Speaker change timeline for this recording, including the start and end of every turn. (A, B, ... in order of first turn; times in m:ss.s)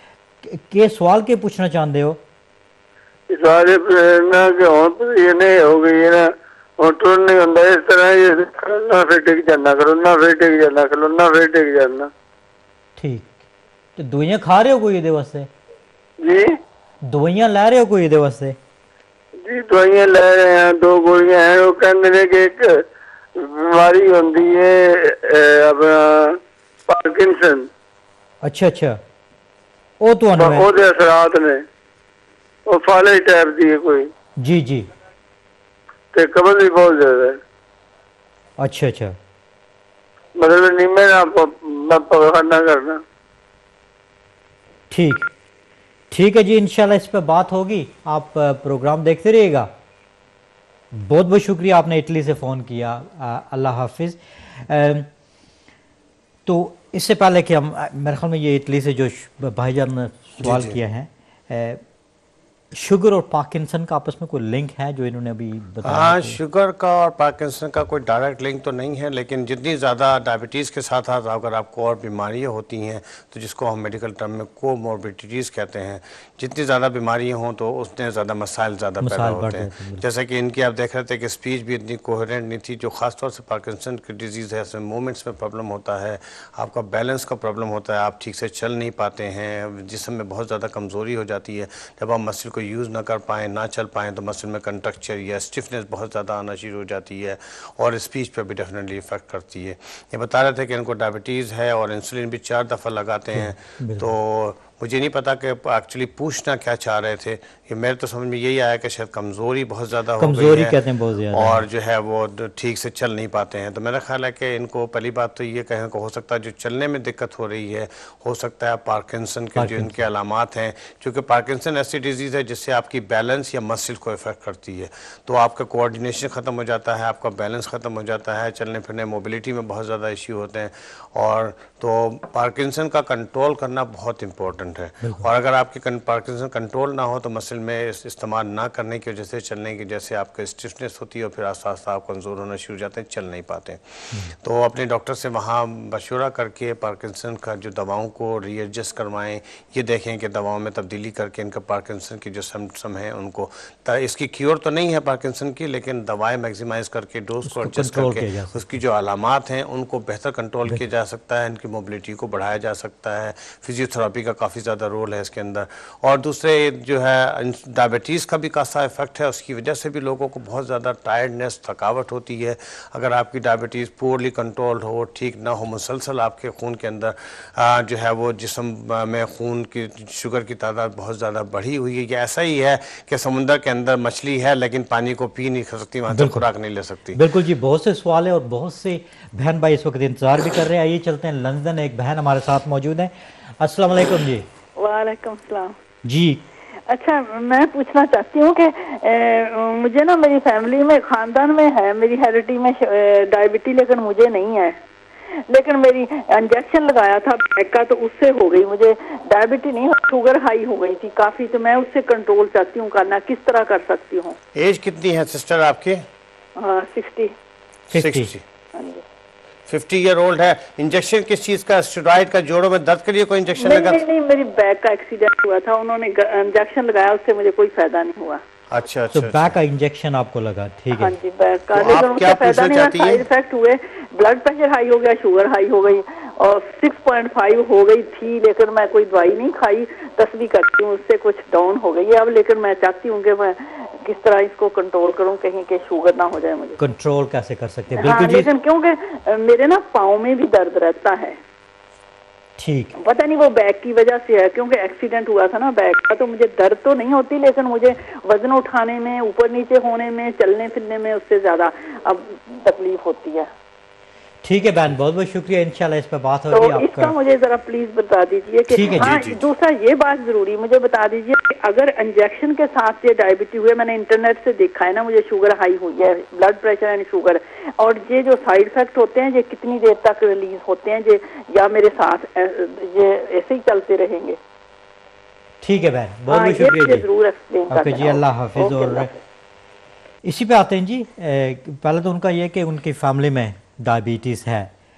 0:00.4-0:02.2 A
0:03.3-0:12.1 B
0:13.0-0:13.4 A
0:14.0-0:15.5 A
0:16.2-0:16.6 B
0:17.1-0:18.6 A
0:19.4-0:22.8 B
0:23.4-0:27.7 B
0:28.4-0:29.0 A
0:30.0-0:30.7 A
0:30.4-0:31.6 B
0:32.7-0:34.1 B
0:34.4-0:34.9 A
0:36.1-0:37.4 B
0:38.6-0:39.2 A
0:40.4-0:43.0 B
0:44.9-0:45.3 A
0:46.1-0:49.7 A
0:50.9-0:55.1 A
0:56.5-1:01.8 A
1:00.4-1:00.8 C
1:02.7-1:06.4 A
1:05.8-1:50.8 C
1:19.0-1:20.0 A
1:43.3-1:44.1 A
1:50.2-1:51.6 A
1:51.3-3:07.2 C
1:59.6-2:00.0 A
2:37.4-2:38.7 A
3:06.1-3:06.4 A
3:07.2-3:14.5 A
3:14.8-3:15.8 D
3:16.0-3:16.4 A
3:16.9-3:24.8 D
3:25.3-3:34.4 D
3:34.6-3:36.1 C
3:36.6-3:37.3 D
3:37.9-3:38.3 A
3:37.9-3:38.4 C
3:38.7-3:39.0 D
3:39.7-3:44.0 C
3:43.6-3:48.4 D
3:48.7-3:49.6 C
3:49.1-3:51.1 A
3:51.0-4:06.8 D
3:51.7-3:53.2 C
4:06.8-4:08.5 A
4:08.0-4:11.4 D
4:12.6-4:13.0 A
4:13.0-4:23.5 D
4:24.4-4:27.2 A
4:26.5-4:44.4 D
4:28.7-4:29.1 A
4:29.0-4:29.4 C
4:45.6-4:47.0 A
4:46.3-4:49.2 D
4:47.7-4:49.1 A
4:50.2-4:54.7 A